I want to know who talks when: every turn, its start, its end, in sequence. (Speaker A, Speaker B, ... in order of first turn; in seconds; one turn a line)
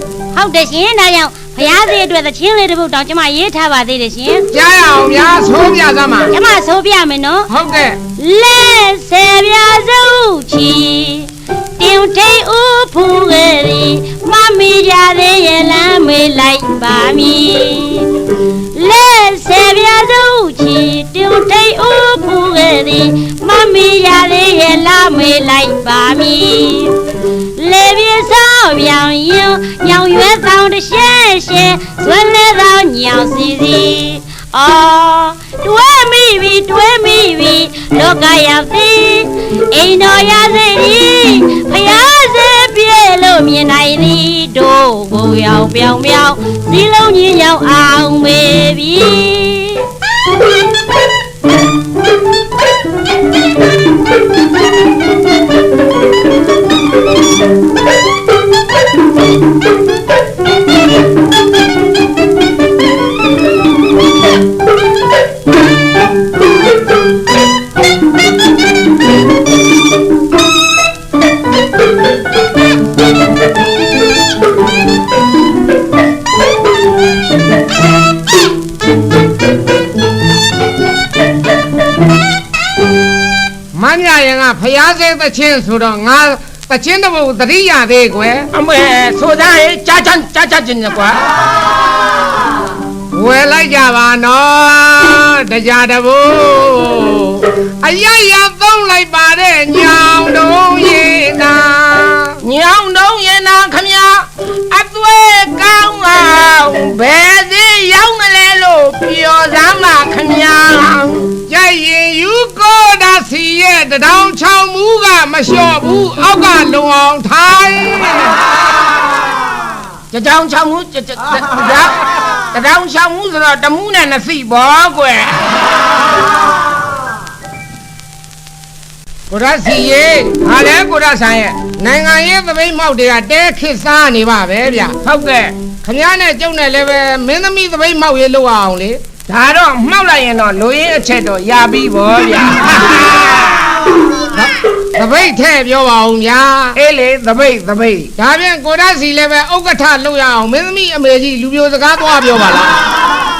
Speaker A: 0.3-4.5
Speaker B: 4.5-6.3
Speaker A: 6.3-7.5
Speaker B: 7.5-8.0
Speaker A: 8.2-49.9
Speaker B: 83.7-88.5
Speaker C: 88.5-91.2
Speaker B: 93.1-102.4
Speaker C: 102.4-111.3
Speaker B: 111.5-118.3
Speaker C: 120.1-125.5
Speaker B: 129.3-130.3
Speaker C: 130.4-131.6
Speaker B: 131.8-135.0
Speaker C: 135.0-135.5
Speaker B: 135.8-139.0
Speaker C: 139.3-143.8
Speaker B: 144.3-146.8
Speaker C: 146.7-148.1
Speaker B: 148.2-152.7